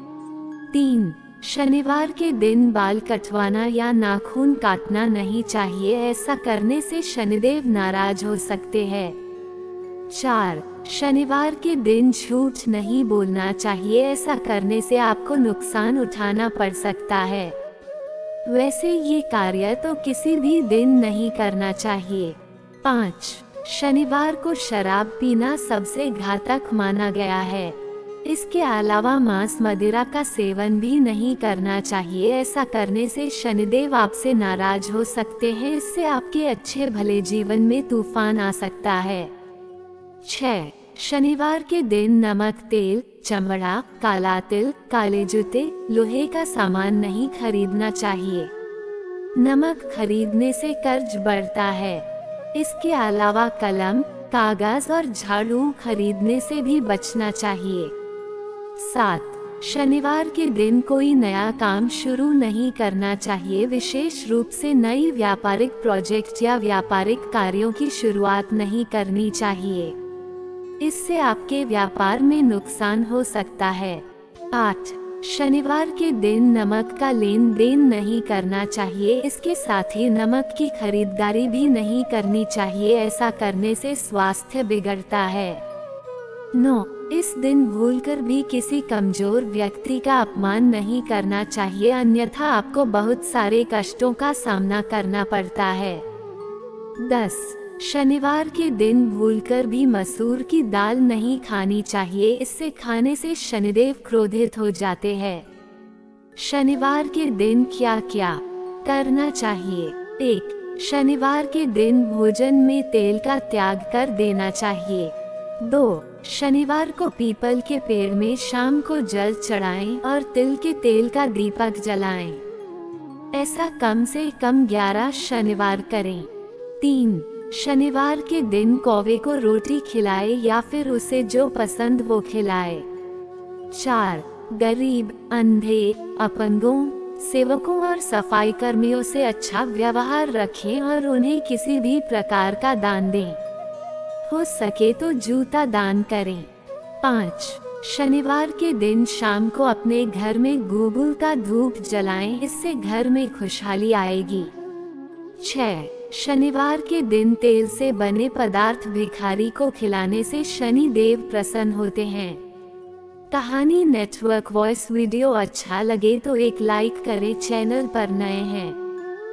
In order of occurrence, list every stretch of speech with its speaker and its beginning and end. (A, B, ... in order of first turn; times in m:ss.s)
0:00.7-0:09.2 A
0:10.1-0:17.6 A
0:18.4-0:39.3 A
0:40.2-0:48.5 A
0:49.4-0:57.9 A
0:58.8-1:10.0 A
1:10.8-1:25.6 A
1:26.5-1:36.0 A
1:37.0-1:45.4 A
1:46.4-2:02.4 A
2:03.3-2:06.3 A
2:06.8-2:12.9 A
2:13.7-2:23.4 A
2:24.2-2:26.5 A
2:27.0-2:34.5 A
2:35.4-2:42.4 A
2:43.3-2:48.8 A